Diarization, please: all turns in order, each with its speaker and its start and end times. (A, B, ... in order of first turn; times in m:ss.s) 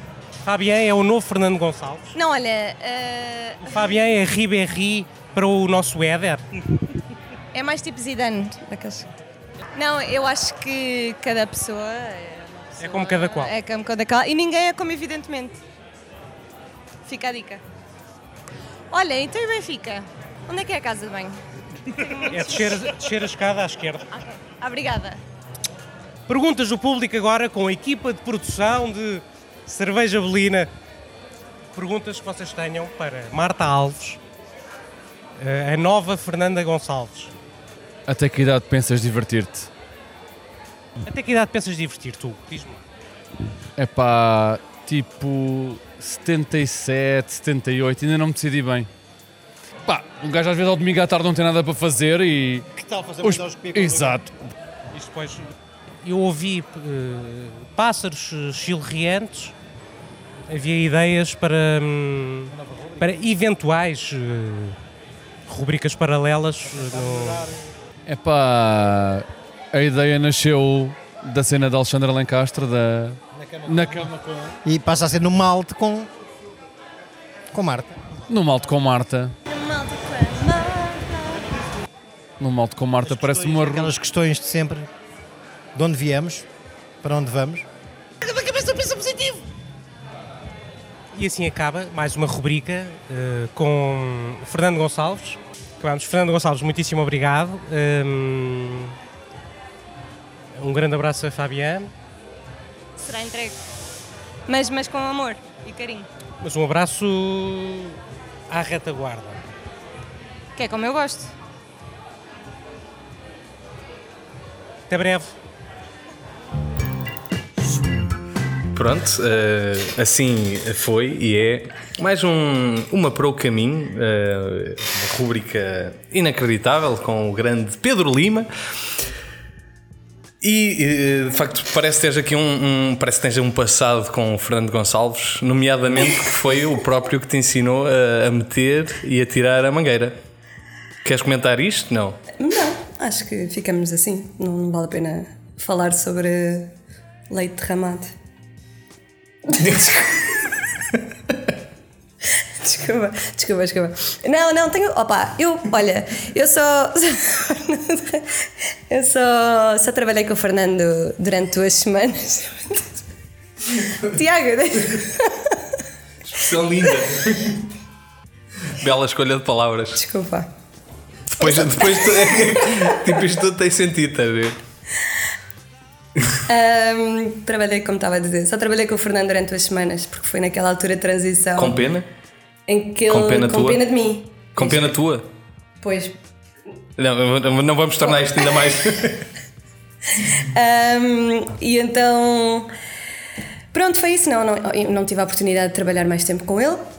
0:00.4-0:02.1 A
0:02.1-0:03.7 B
0:03.6-0:06.4 A
0:07.5-0:09.1 B
0:09.7-0:15.6 B
0:12.8-0:13.6 A
0:17.1-0:17.6 B
0:18.9-0:21.4 B
0:21.9-0:22.6 B
0:22.3-0:24.0 A
0:24.6-0:25.2 B
0:26.3-0:30.7 A
0:31.7-0:34.2 A
0:35.4-0:37.3 A
0:38.1-0:39.7 C
0:41.0-0:42.8 A
0:43.8-0:48.9 C
0:49.9-0:54.4 C
0:52.8-0:54.1 D
0:54.9-0:55.5 A
0:56.0-0:59.5 A
1:00.5-1:04.8 A
1:02.7-1:03.0 D
1:05.5-1:07.5 A
1:08.0-1:14.2 C
1:14.6-1:16.1 D
1:17.5-1:18.1 D
1:18.3-1:19.3 C
1:19.4-1:21.5 B
1:22.4-1:23.9 C
1:23.0-1:24.9 D
1:25.7-1:26.5 D
1:27.0-1:27.7 D
1:28.2-1:29.3 A
1:31.1-1:38.9 A
1:40.6-1:41.9 A
1:43.0-1:43.6 B
1:44.5-1:46.1 B
1:46.4-1:48.0 A
1:48.5-1:49.4 A
1:50.6-1:51.3 B
1:54.9-1:55.3 A
1:58.7-2:08.5 E
2:10.4-2:20.2 E
2:21.0-2:22.2 E
2:22.4-2:26.7 B
2:27.3-2:28.1 B
2:29.5-2:30.2 B
2:32.6-2:42.9 B
2:43.9-2:45.6 B
2:46.3-2:47.5 E
2:48.7-2:50.0 E
2:49.9-2:50.5 B
2:51.3-2:54.6 E
2:51.4-2:53.0 B
2:56.4-3:01.8 B
3:01.6-3:02.1 E
3:02.7-3:05.0 B
3:03.1-3:03.9 E
3:04.6-3:05.2 E
3:05.8-3:06.2 B
3:07.0-3:09.2 E
3:10.1-3:12.7 B
3:13.7-3:16.8 B